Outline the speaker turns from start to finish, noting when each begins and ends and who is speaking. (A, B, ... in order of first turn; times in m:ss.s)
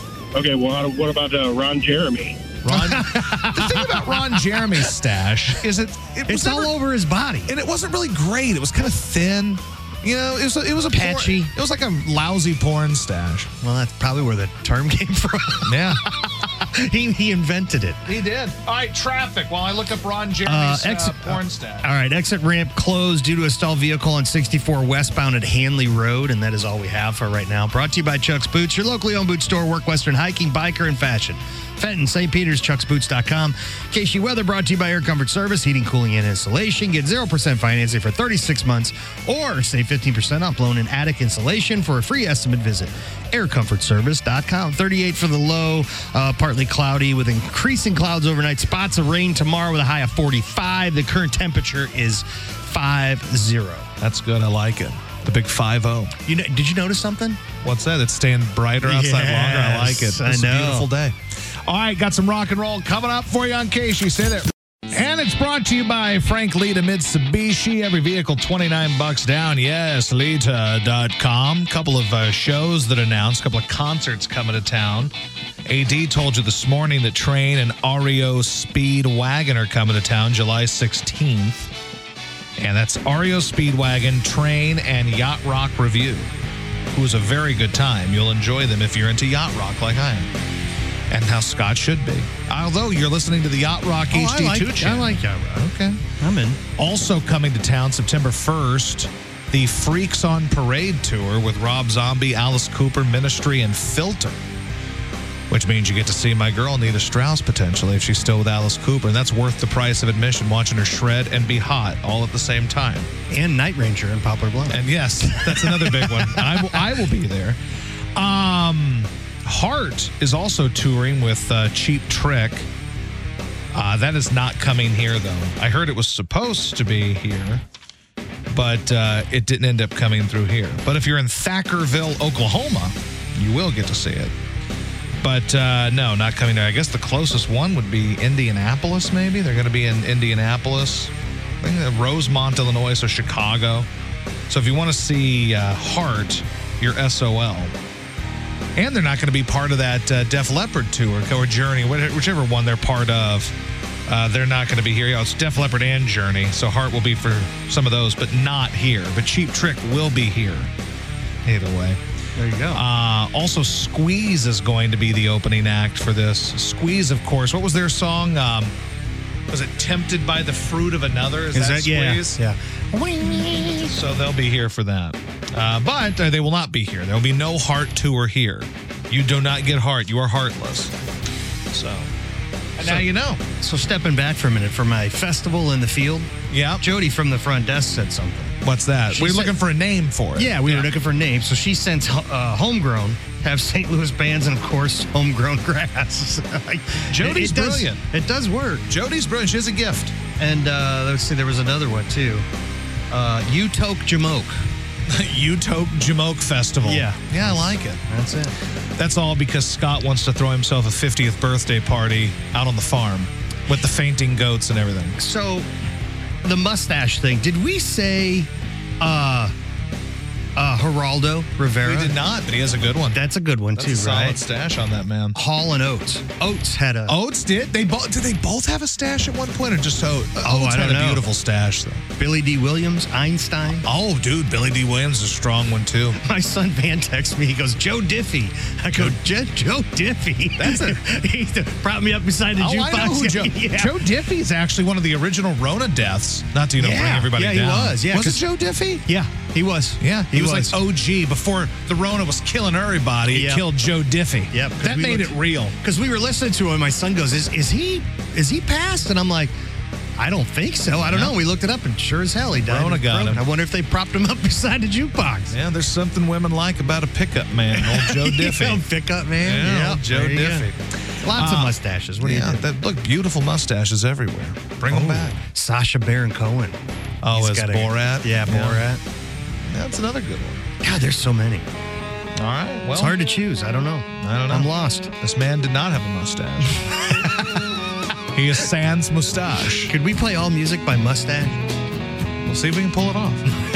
0:00.3-0:02.5 A
0:02.6-0:06.7 B
0:02.7-0:04.9 C
0:06.3-0:07.5 C
0:07.5-0:13.5 B
0:10.9-0:11.5 C
0:13.6-0:18.0 C
0:15.6-0:16.0 B
0:18.0-0:21.9 B
0:20.4-0:53.9 C
0:54.0-0:56.1 B
0:56.2-0:57.4 C
0:57.6-1:15.1 B
0:58.8-1:00.9 C
1:15.6-1:21.7 B
1:22.6-1:26.3 B
1:26.9-1:30.3 B
1:31.1-1:36.0 B
1:34.1-1:36.6 C
1:36.8-1:44.4 B
1:45.5-1:53.1 B
1:53.3-1:56.8 C
1:54.7-1:57.6 B
1:58.2-2:02.7 B
2:03.7-2:07.6 B
2:08.5-2:14.3 B
2:15.2-2:23.9 B
2:24.5-2:27.7 B
2:28.8-2:33.5 B
2:34.1-2:40.7 B
2:41.4-2:42.0 B
2:42.4-2:42.8 C
2:42.7-2:48.7 B
2:49.5-2:52.4 B
2:51.5-2:53.9 C
2:53.6-3:00.9 B
3:01.7-3:02.1 B
3:02.8-3:03.4 B
3:02.8-3:08.6 C
3:06.5-3:06.8 B
3:08.6-3:10.9 B
3:09.1-3:09.6 C
3:10.4-3:18.8 C
3:17.1-3:18.0 B
3:18.9-3:20.1 B
3:20.4-3:22.4 C
3:23.1-3:24.6 C
3:25.1-3:28.0 B
3:26.8-3:27.4 C
3:28.1-3:28.5 C
3:29.0-3:35.2 B
3:35.2-3:35.7 C
3:36.4-3:38.5 C
3:39.0-3:39.5 C
3:40.6-3:42.2 C
3:41.8-3:43.2 B
3:43.1-3:44.4 C
3:43.8-3:45.4 B
3:45.3-3:47.2 C
3:47.1-3:52.0 B
3:50.4-3:51.2 C
3:52.2-3:53.8 C
3:53.8-3:56.2 B
3:56.2-4:04.0 C
4:00.6-4:01.0 B
4:02.6-4:09.0 B
4:06.8-4:08.4 C
4:09.0-4:10.8 C
4:10.0-4:15.7 B
4:13.3-4:13.6 C
4:14.5-4:19.5 C
4:20.2-4:25.5 C
4:21.0-4:21.3 B
4:22.6-4:23.4 B
4:25.5-4:28.8 B
4:27.7-4:30.7 C
4:29.4-4:35.4 B
4:31.2-4:32.6 C
4:34.9-4:36.8 C
4:37.2-4:38.8 B
4:37.3-4:39.0 C
4:39.6-4:40.6 B
4:40.8-4:41.7 C
4:42.4-4:43.2 B
4:43.0-4:45.1 C
4:44.2-4:46.9 B
4:47.1-4:47.6 C
4:48.3-4:49.9 B
4:49.8-4:51.6 C
4:52.4-4:53.5 B